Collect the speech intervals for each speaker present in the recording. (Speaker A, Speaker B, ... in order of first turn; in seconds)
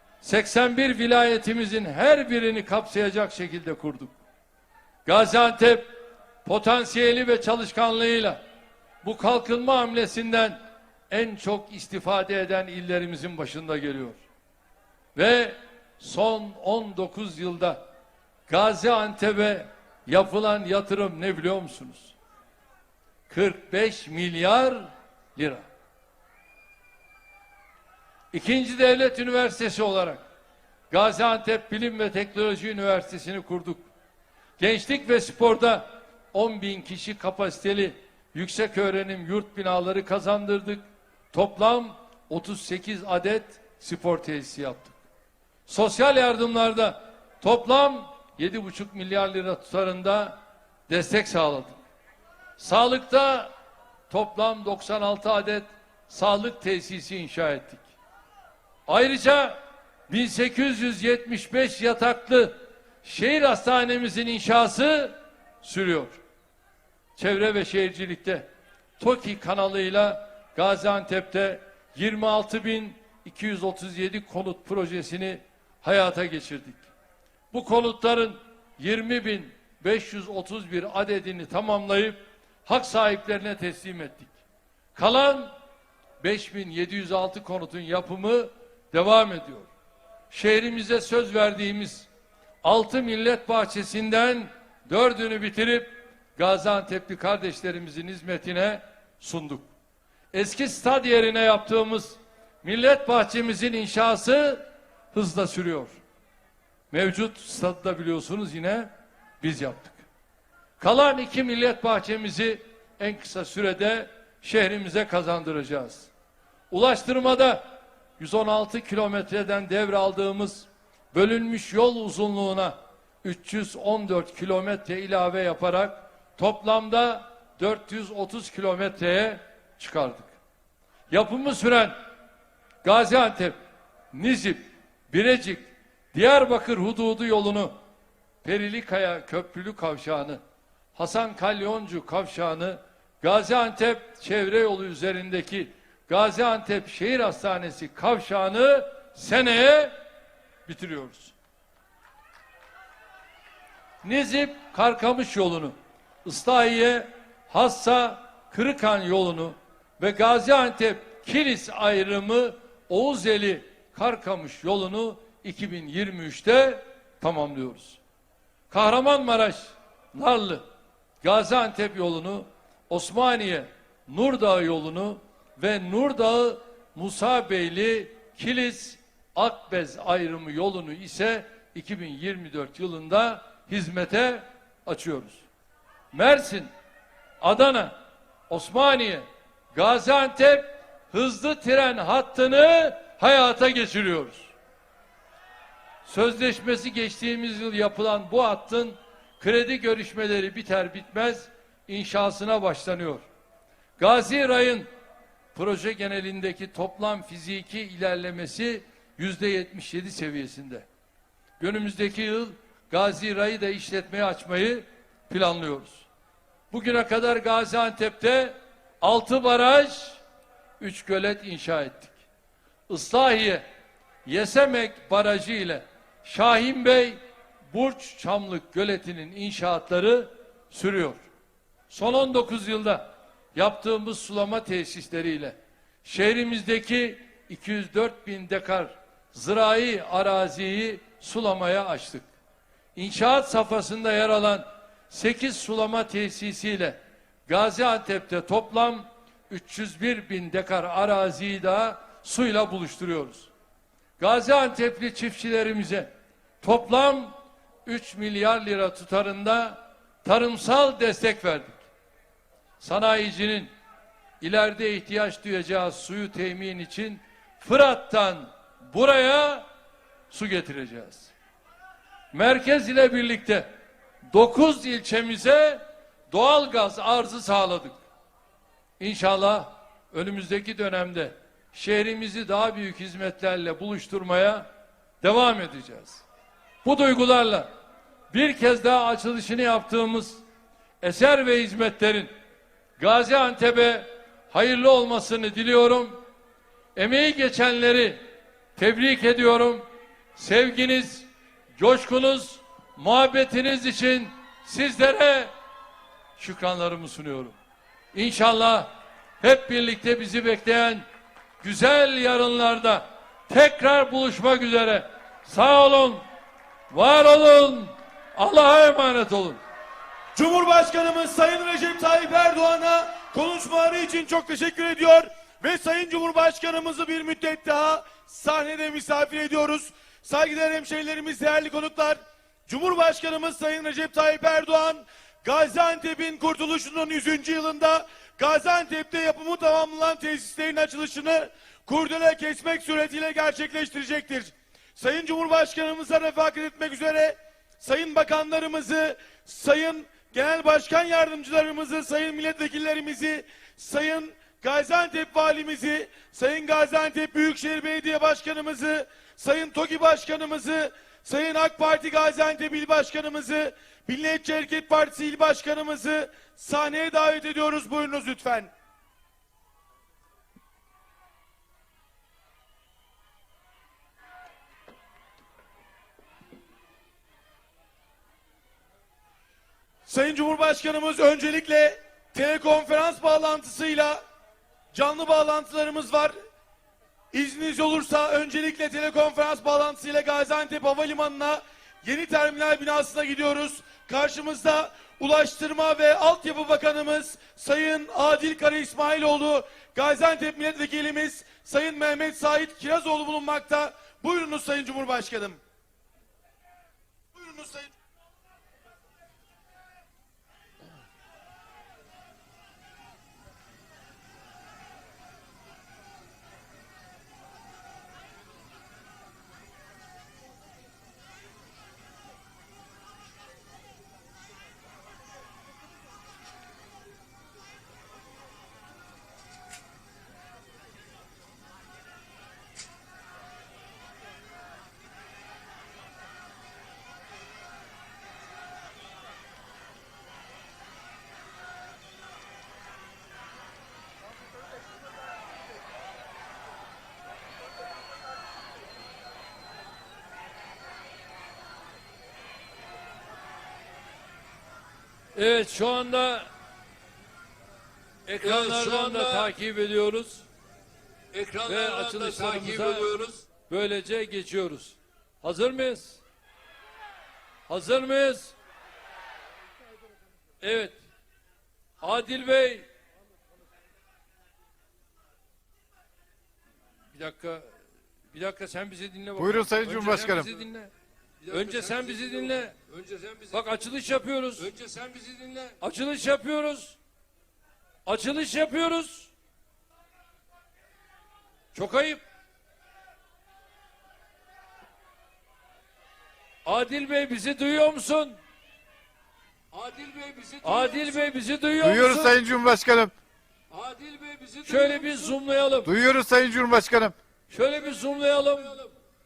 Speaker A: 0.2-4.1, 5.0-5.8, 6.4-8.4, 9.0-14.2, 15.1-17.8, 18.5-22.1, 23.3-25.6, 28.3-30.2, 30.9-33.9, 34.6-45.0, 45.7-50.4, 50.9-51.8, 52.6-53.5, 54.1-57.8, 58.9-59.6, 60.1-66.2, 67.2-68.5, 69.0-76.8, 77.5-84.3, 84.9-85.5, 86.2-89.7, 90.3-92.1, 92.6-99.7, 100.3-105.9, 106.9-110.0, 110.8-116.1, 116.7-117.6, 118.2-130.3, 131.1-131.9, 132.8-133.6, 134.1-137.7, 138.4-140.4, 140.9-149.9, 150.7-151.3, 154.0-168.0, 168.7-170.6, 171.2-185.4, 186.1-186.7, 187.4-187.9, 188.5-194.5, 196.0-203.2, 204.0-204.9, 205.5-210.9, 211.6-216.1, 216.7-220.2, 220.8-222.1, 222.9-223.6, 224.2-227.2, 227.7-231.2, 231.9-242.3, 242.9-253.5, 254.2-256.1, 256.6-257.3, 257.9-261.8, 262.8-263.7, 264.4-269.6, 270.3-271.3, 272.3-273.7, 274.3-278.0, 279.0-284.6, 285.2-286.2, 286.8-287.7, 288.3-290.4, 291.0-292.3, 293.0-296.2, 296.9-298.2, 298.8-299.8, 300.3-305.5, 306.4-307.6, 308.1-311.1, 311.6-316.2, 316.9-319.6, 455.3-456.5, 458.3-460.4, 461.6-466.2, 467.7-468.5, 470.6-470.9, 472.0-472.9, 477.1-477.8, 478.3-480.9, 481.5-482.7, 483.5-484.7, 485.8-487.0, 488.1-489.3, 491.7-492.2, 496.6-498.4, 500.6-502.4, 504.6-505.9, 507.5-508.7
Speaker B: 320.3-368.7, 380.1-384.2, 384.9-386.3, 387.3-405.6, 407.3-407.9
Speaker C: 458.4-459.5, 461.3-463.4, 481.4-483.6, 484.6-485.8, 499.7-501.2, 503.7-505.3, 507.9-508.9
Speaker D: 479.4-480.5, 501.8-503.1, 505.9-507.1